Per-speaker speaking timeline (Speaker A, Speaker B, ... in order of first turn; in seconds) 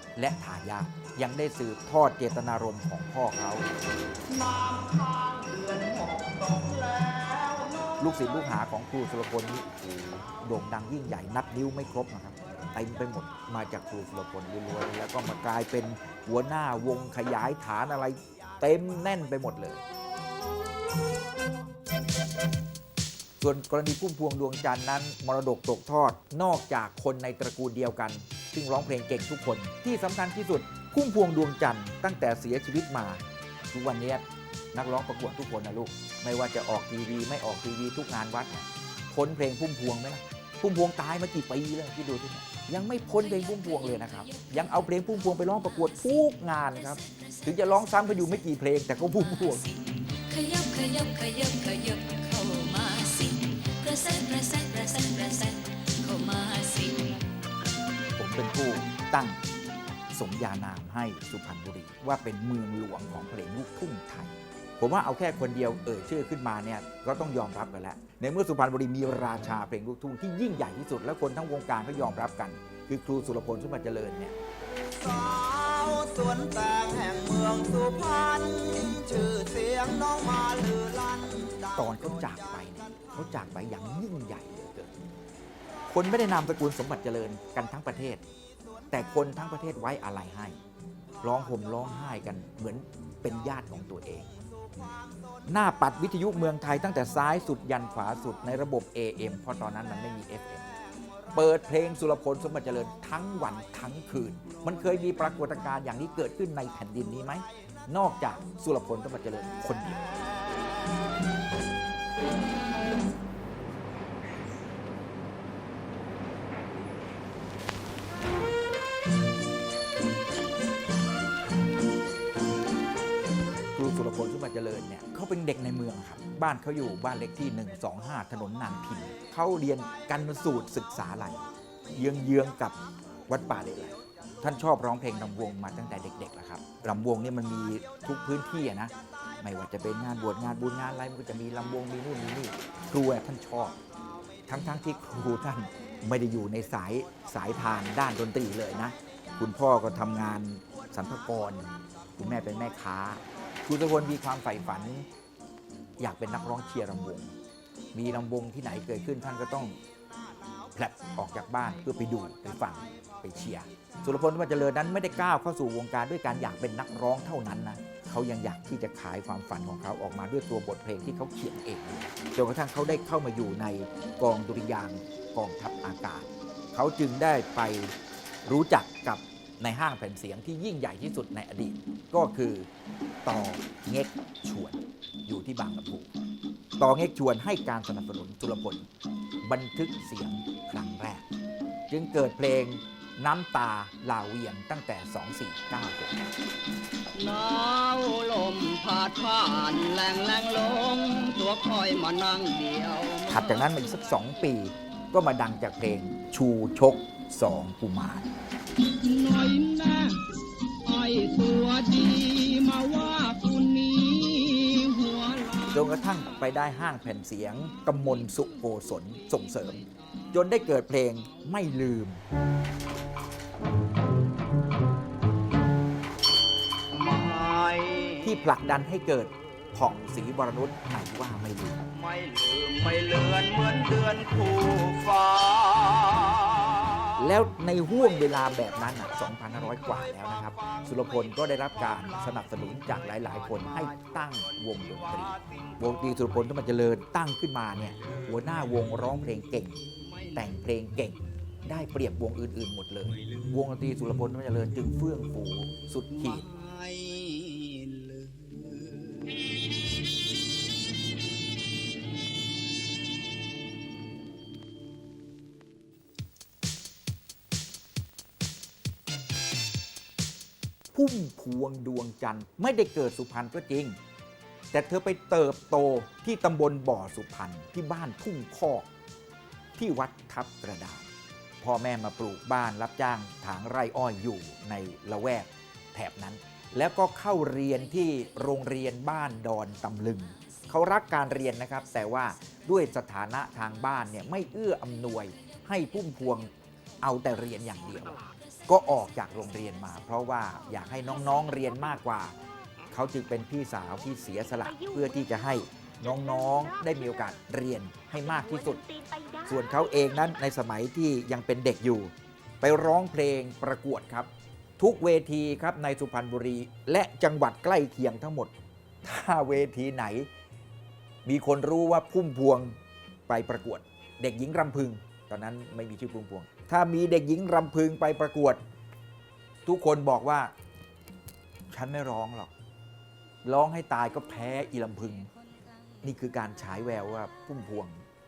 Speaker A: 0.2-3.7, 8.0-19.8, 23.4-34.2, 34.7-49.7, 58.2-59.4, 60.1-74.3, 81.7-85.0, 85.9-88.2, 88.9-90.6, 91.2-94.3, 95.5-100.7, 101.3-110.1, 123.8-143.8, 144.5-155.1, 156.0-157.3, 157.9-159.8, 160.7-177.9, 178.5-182.7, 183.2-186.1, 186.8-188.8, 189.4-191.2, 191.9-196.2, 203.3-208.3, 215.7-222.2, 228.2-231.9, 237.2-249.8, 250.3-256.5, 270.9-274.0, 274.7-278.9, 279.8-281.1, 281.6-302.4, 302.9-308.8, 309.4-318.5, 319.0-320.3, 321.2-322.8, 323.3-328.6, 329.6-330.5, 331.7-332.5, 333.4-335.3, 336.0-338.0
Speaker B: 4.3-8.0, 75.0-81.7, 197.2-204.3, 208.9-210.3, 210.8-215.7, 226.9-228.3, 231.9-237.1, 242.5-243.9, 249.9-250.3, 256.2-259.4, 308.9-309.4
Speaker C: 47.0-47.3, 49.8-57.2